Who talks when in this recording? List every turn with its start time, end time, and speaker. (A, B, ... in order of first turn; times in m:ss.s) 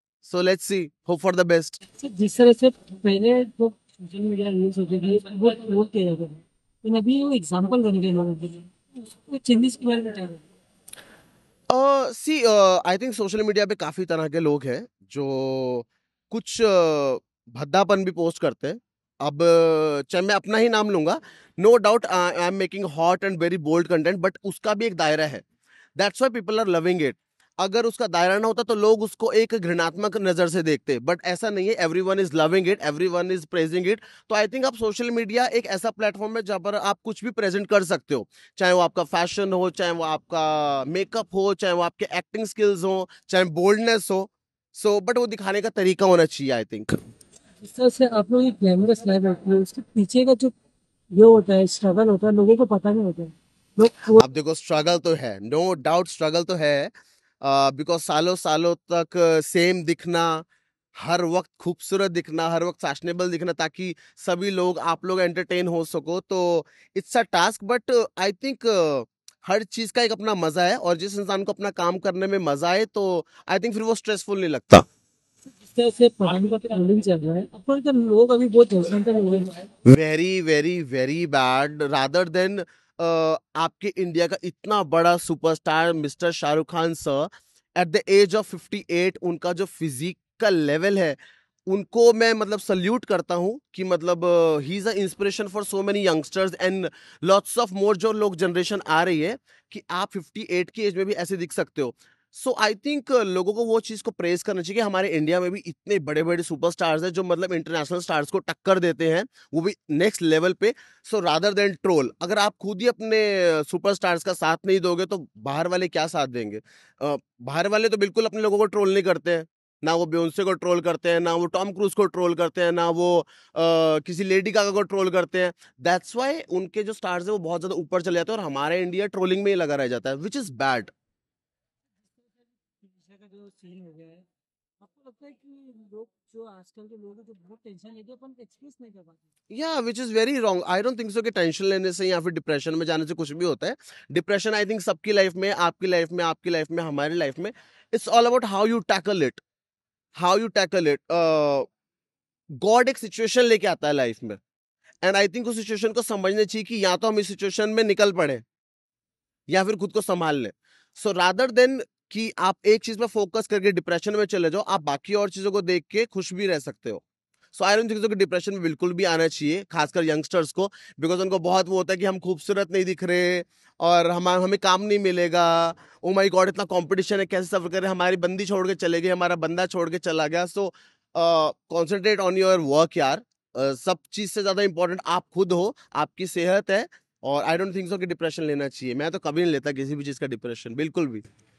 0:00.2-0:01.8 A
0:01.9-0:10.4 B
0:11.7-0:25.4 A
0:26.0-0:47.0 A
0:47.6-0:50.5 B
0:51.1-0:54.2 B
0:54.2-1:14.8 A
1:15.6-1:19.7 B
1:19.8-2:10.9 A
2:12.2-2:14.2 B
2:14.8-2:19.2 B
2:19.5-2:29.4 A
2:30.1-2:31.7 A
2:32.6-2:34.4 A
2:35.0-2:38.4 A
2:39.5-2:47.0 A
2:47.5-3:11.2 A